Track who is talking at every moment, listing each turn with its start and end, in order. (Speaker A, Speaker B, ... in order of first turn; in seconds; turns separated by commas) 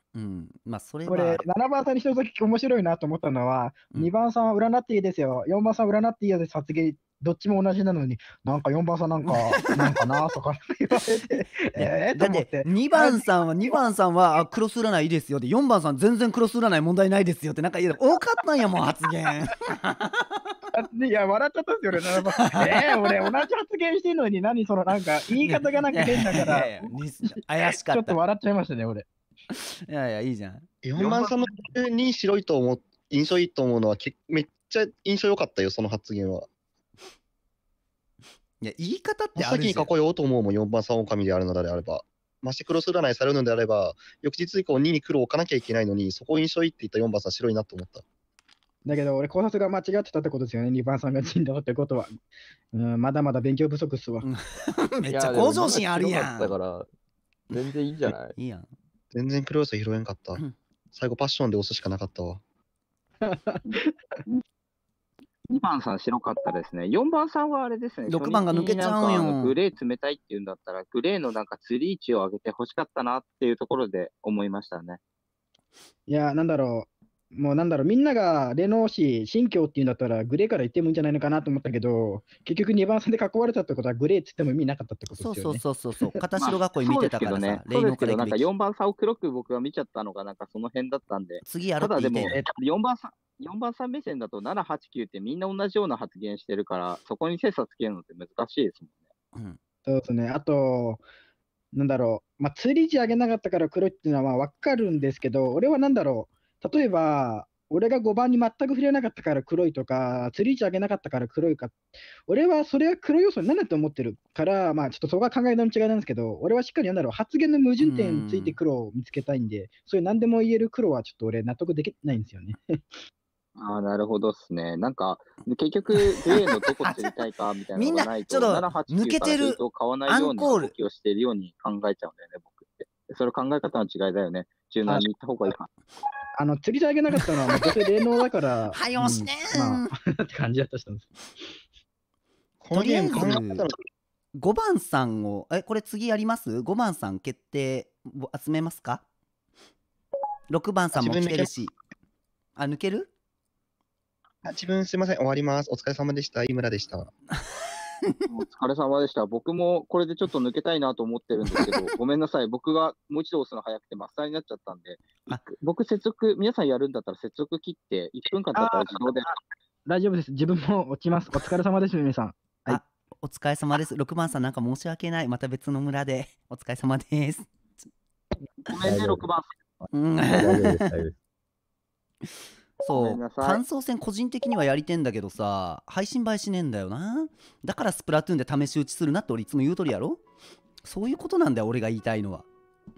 Speaker A: 0.1-1.4, Speaker B: 1.1-13.8, Speaker A: 11.3-20.6, Speaker B: 20.7-29.1, Speaker A: 22.5-23.1, Speaker A: 25.4-28.2, Speaker A: 29.5-30.7, Speaker C: 30.8-36.5, Speaker A: 38.6-39.9, Speaker C: 39.4-48.0, Speaker B: 48.9-52.2, Speaker B: 52.7-54.3, Speaker A: 54.2-56.5, Speaker D: 55.0-56.9, Speaker D: 57.5-58.4, Speaker A: 57.5-58.7, Speaker C: 59.1-62.4, Speaker B: 63.2-63.9, Speaker E: 65.5-75.0, Speaker A: 68.1-69.6, Speaker B: 76.1-85.6, Speaker A: 85.1-88.5, Speaker E: 86.4-99.0, Speaker A: 91.4-92.4, Speaker B: 99.9-101.0, Speaker B: 101.7-122.8, Speaker A: 117.8-118.6, Speaker E: 123.6-135.7, Speaker A: 126.0-127.2, Speaker A: 127.8-130.7, Speaker B: 136.4-141.1, Speaker A: 137.2-137.7, Speaker A: 138.7-139.9, Speaker C: 142.6-143.8, Speaker A: 142.7-143.7, Speaker A: 144.3-149.1, Speaker A: 150.5-151.7, Speaker C: 150.9-151.5, Speaker A: 152.6-153.1, Speaker C: 154.4-157.1, Speaker E: 158.3-169.3, Speaker B: 168.5-169.3, Speaker B: 169.9-172.8, Speaker A: 172.7-177.5, Speaker E: 178.7-179.5, Speaker A: 179.9-180.9, Speaker A: 182.8-190.2, Speaker E: 182.9-183.6, Speaker A: 190.8-192.5